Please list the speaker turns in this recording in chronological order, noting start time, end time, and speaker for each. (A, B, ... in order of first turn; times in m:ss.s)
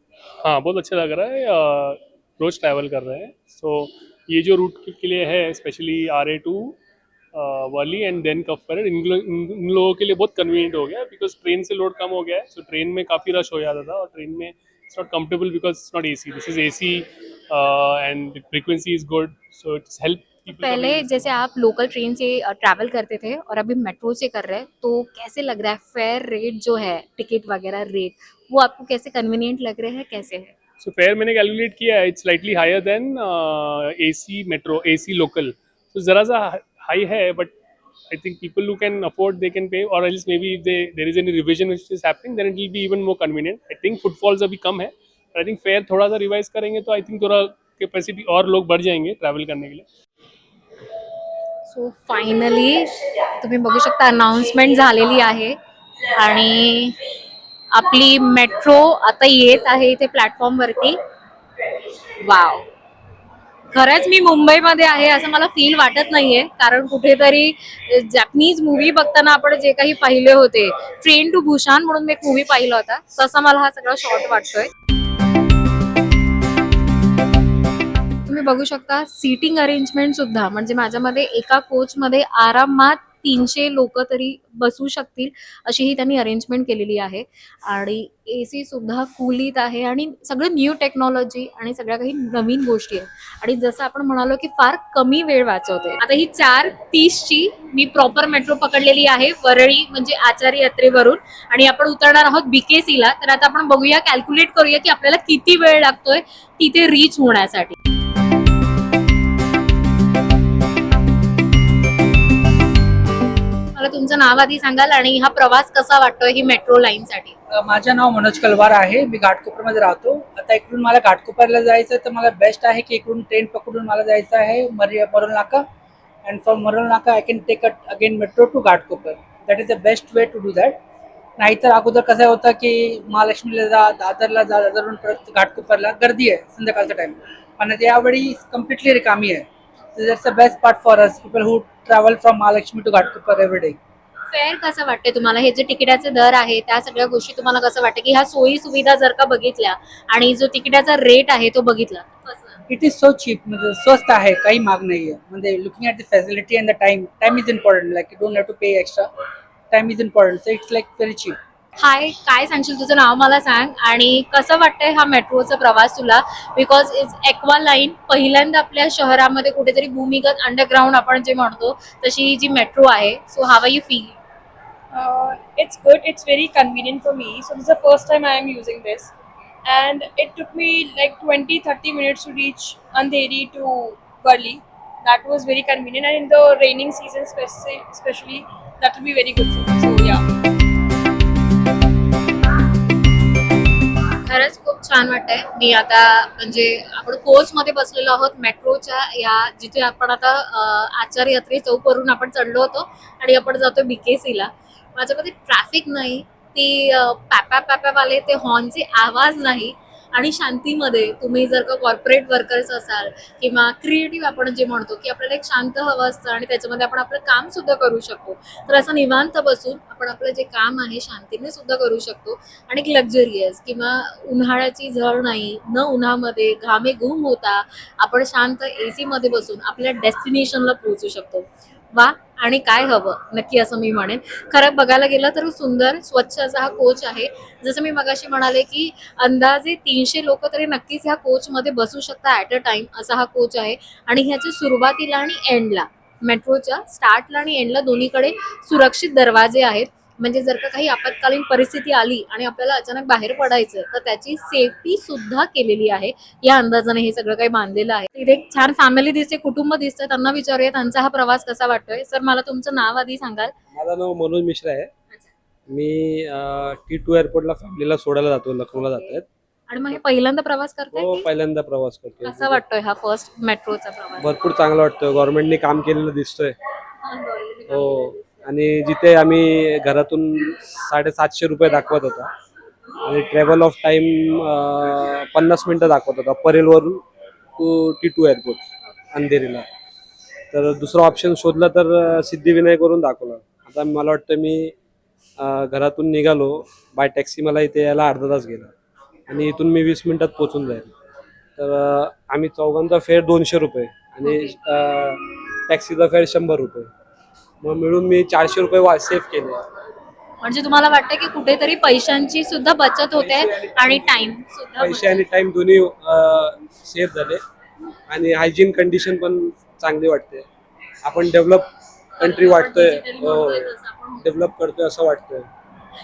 0:00.4-0:06.8 A
0:07.3-0:21.3 A
0:20.5-0:30.5 B
0:30.8-0:37.5 A
0:38.1-0:49.8 A
0:51.7-0:55.6 B
0:56.1-0:57.0 B
0:57.7-1:01.0 B
1:02.2-1:02.7 B
1:03.7-1:14.7 B
1:18.2-1:47.7 B
1:53.8-1:57.4 B
1:57.5-2:05.6 C
2:06.2-2:10.8 C
2:11.4-2:23.8 C
2:24.3-2:32.6 B
2:32.7-2:39.1 C
2:39.7-2:41.4 C
2:41.8-2:54.2 B
2:54.9-2:59.1 D
2:59.6-3:10.2 D
3:14.2-4:23.5 B
4:23.7-4:24.9 E
4:25.7-4:29.2 E
4:28.7-4:31.3 B
4:30.9-4:32.6 E
4:32.2-4:34.3 B
4:34.2-4:36.5 E
4:37.0-4:38.4 B
4:37.7-4:42.3 E
4:43.0-4:47.0 E
4:47.6-4:49.6 E
4:50.5-4:54.7 E
4:55.4-4:58.7 E
4:59.3-5:00.9 E
5:01.6-5:06.9 E
5:04.2-5:04.6 B
5:07.6-5:09.6 E
5:10.4-5:15.3 B
5:13.1-5:17.4 E
5:18.1-5:20.4 E
5:21.0-5:21.7 E
5:22.2-5:24.3 B
5:22.2-5:25.5 E